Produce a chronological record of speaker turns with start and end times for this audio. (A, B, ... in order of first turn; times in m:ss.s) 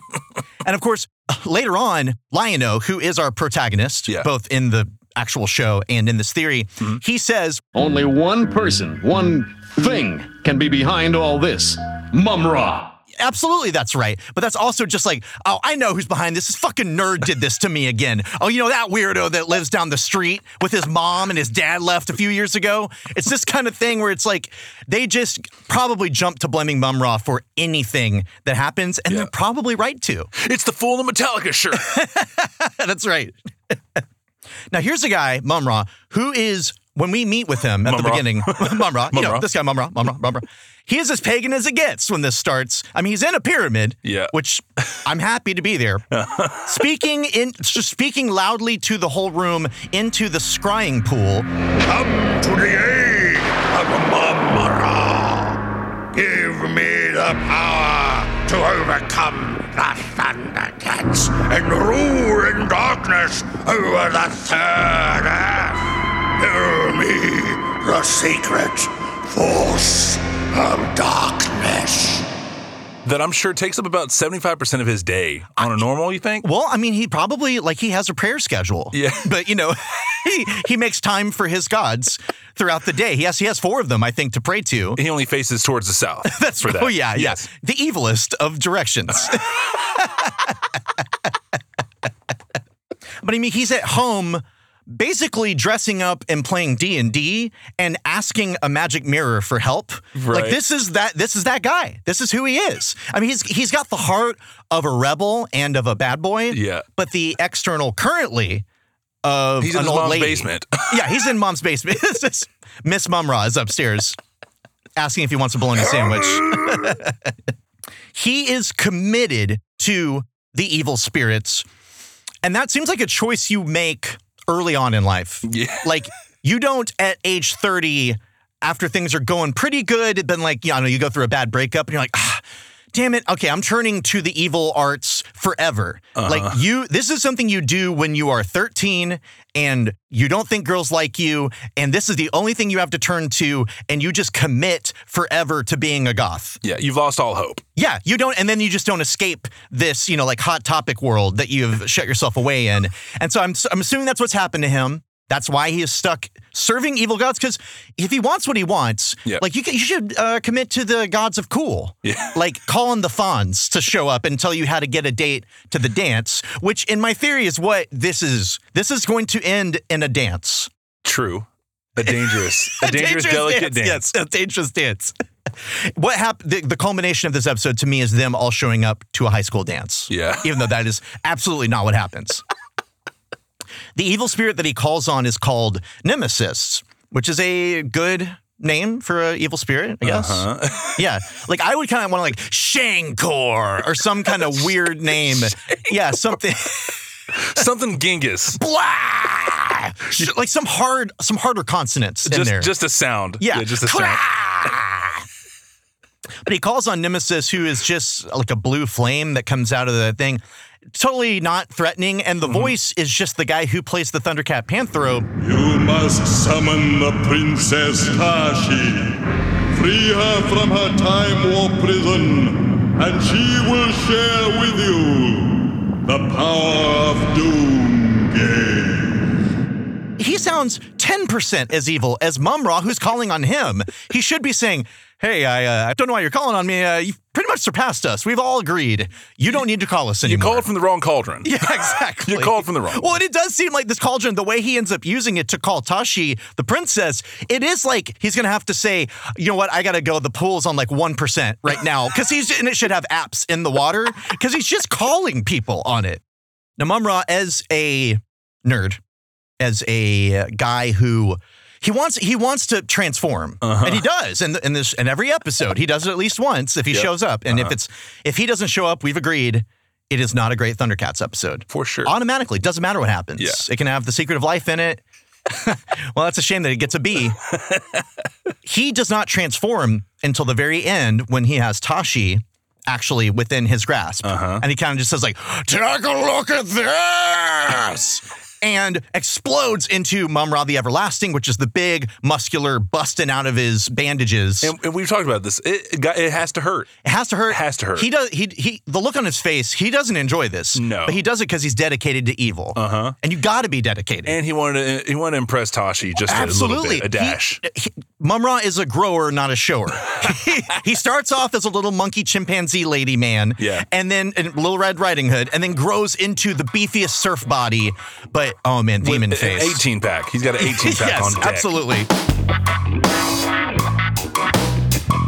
0:00.6-0:07.6 A
0:07.7-0:12.9 B
0:13.2-0:30.3 A
0:30.4-0:32.0 C
0:31.7-0:33.7 A
0:34.7-0:46.0 A
0:37.8-0:39.4 C
0:44.0-0:44.3 C
0:46.1-0:46.8 C
0:46.6-0:51.5 A
0:51.8-0:55.6 D
0:56.1-1:05.8 D
1:06.4-1:12.2 D
1:13.0-1:16.4 C
1:16.4-1:25.0 A
1:18.9-1:19.3 C
1:25.0-1:27.4 C
1:26.2-1:30.6 A
1:33.2-1:48.6 A
1:40.1-1:40.6 C
1:46.5-1:46.8 C
1:49.2-1:54.2 A
1:49.6-1:51.2 C
1:55.0-1:57.3 A
1:55.9-1:56.9 C
1:58.1-2:01.6 A
2:02.4-2:26.6 A
2:05.4-2:05.9 C
2:16.2-2:16.6 C
2:26.6-2:27.6 C
2:27.8-2:50.7 A
2:42.0-2:42.3 C
2:51.0-2:54.0 C
2:52.1-3:02.4 A
3:00.1-3:00.5 C
3:04.0-3:17.0 A
3:10.0-3:11.0 C
3:14.5-3:15.8 C
3:17.3-3:18.6 C
3:18.6-3:22.7 A
3:22.2-3:24.2 C
3:23.4-3:25.2 A
3:26.4-3:30.4 A
3:30.9-3:35.3 A
3:32.4-3:32.7 C
3:35.4-3:39.2 E
3:39.7-3:49.2 E
3:50.2-4:00.7 A
4:00.2-4:01.6 C
4:01.4-4:16.2 A
4:02.2-4:03.1 C
4:16.8-4:19.0 A
4:19.6-4:37.4 A
4:23.6-4:24.0 C
4:26.9-4:27.7 C
4:31.7-4:32.1 C
4:38.6-4:54.7 A
4:44.2-4:44.6 C
4:54.6-4:56.9 C
4:57.0-5:04.3 A
4:57.5-4:58.1 C
5:00.7-5:01.2 C
5:02.8-5:03.1 C
5:04.2-5:07.6 C
5:06.3-5:19.8 A
5:13.6-5:13.8 C
5:19.0-5:21.7 C
5:20.6-5:22.1 A